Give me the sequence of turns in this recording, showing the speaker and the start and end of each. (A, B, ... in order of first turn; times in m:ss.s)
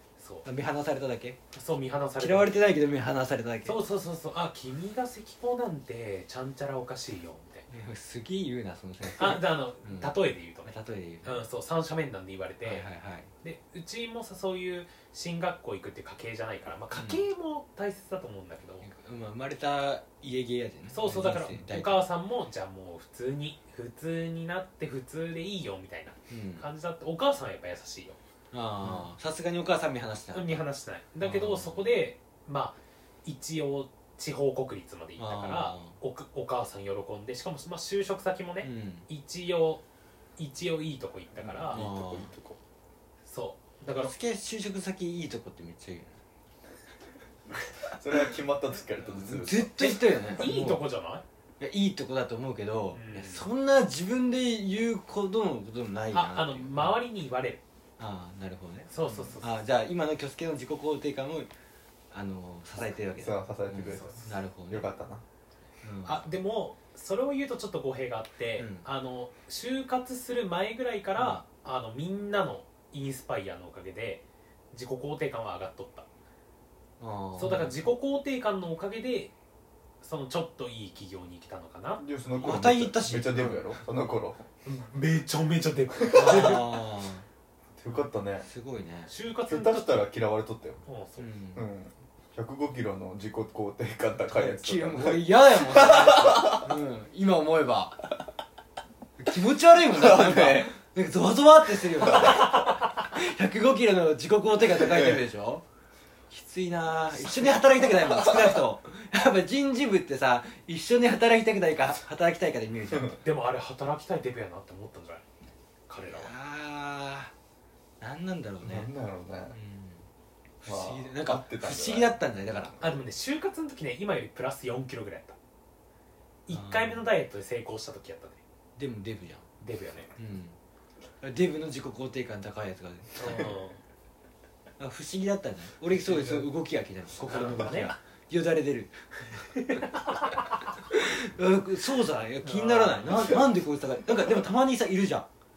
0:00.2-0:00.4 A
0:00.4-0:01.4 B
0:01.5-0:02.6 A
0:02.2-0:03.8 B
0:03.6-0:07.7 A
0:07.7-0:11.4 B
0:09.2-0:12.9 A
0:12.6-0:13.3 B
0:13.4-0:18.8 A
0:16.9-0:17.2 B
0:18.8-0:22.0 B
0:20.9-0:28.2 A
0:26.3-0:26.7 B
0:28.5-0:30.6 B
0:30.3-0:39.8 A
0:31.2-0:31.8 B
0:35.2-0:36.0 B
0:38.6-0:39.0 B
0:40.4-0:41.8 A
0:41.4-0:42.6 C
0:41.7-0:42.3 B
0:43.2-0:44.1 A
0:44.0-0:46.2 B
0:47.9-0:49.8 C
0:49.0-0:50.8 B
0:49.8-0:51.2 A
0:51.6-0:56.9 B
0:52.9-0:53.5 A
0:56.1-0:57.6 A
0:58.0-1:01.5 B
0:58.9-0:59.6 A
1:02.1-1:04.9 B
1:03.2-1:05.2 C
1:03.9-1:04.2 A
1:05.8-1:06.3 B
1:06.0-1:16.1 A
1:08.6-1:08.8 B
1:11.2-1:11.4 B
1:17.0-1:17.7 B
1:17.4-1:19.3 A
1:20.0-1:22.0 A
1:22.0-1:24.4 C
1:22.4-1:23.8 B
1:24.6-1:26.8 A
1:26.0-1:26.6 C
1:26.1-1:27.2 B
1:27.8-1:28.5 C
1:27.9-1:29.1 B
1:29.1-1:30.1 A
1:29.5-1:30.8 C
1:30.8-1:31.3 A
1:31.2-1:31.6 B
1:31.5-1:36.7 C
1:34.3-1:38.0 B
1:39.2-1:45.6 B
1:39.8-1:40.7 C
1:42.0-1:42.7 C
1:44.8-1:45.2 C
1:46.3-1:53.2 B
1:48.0-1:48.6 C
1:52.9-1:53.2 C
1:53.2-1:55.2 A
1:55.9-1:56.3 A
1:56.1-1:57.3 B
1:58.0-1:58.9 B
1:58.6-1:59.6 C
1:59.5-2:00.0 B
2:00.6-2:02.8 B
2:00.6-2:03.0 C
2:02.8-2:05.4 A
2:06.4-2:08.4 A
2:06.5-2:07.0 B
2:08.8-2:09.5 B
2:09.6-2:10.1 A
2:10.2-2:10.6 B
2:11.2-2:13.5 B
2:13.2-2:13.8 A
2:14.8-2:19.0 B
2:16.0-2:16.5 C
2:17.2-2:17.9 A
2:19.5-2:20.3 A
2:20.9-2:25.2 B
2:22.4-2:23.3 A
2:23.0-2:23.4 C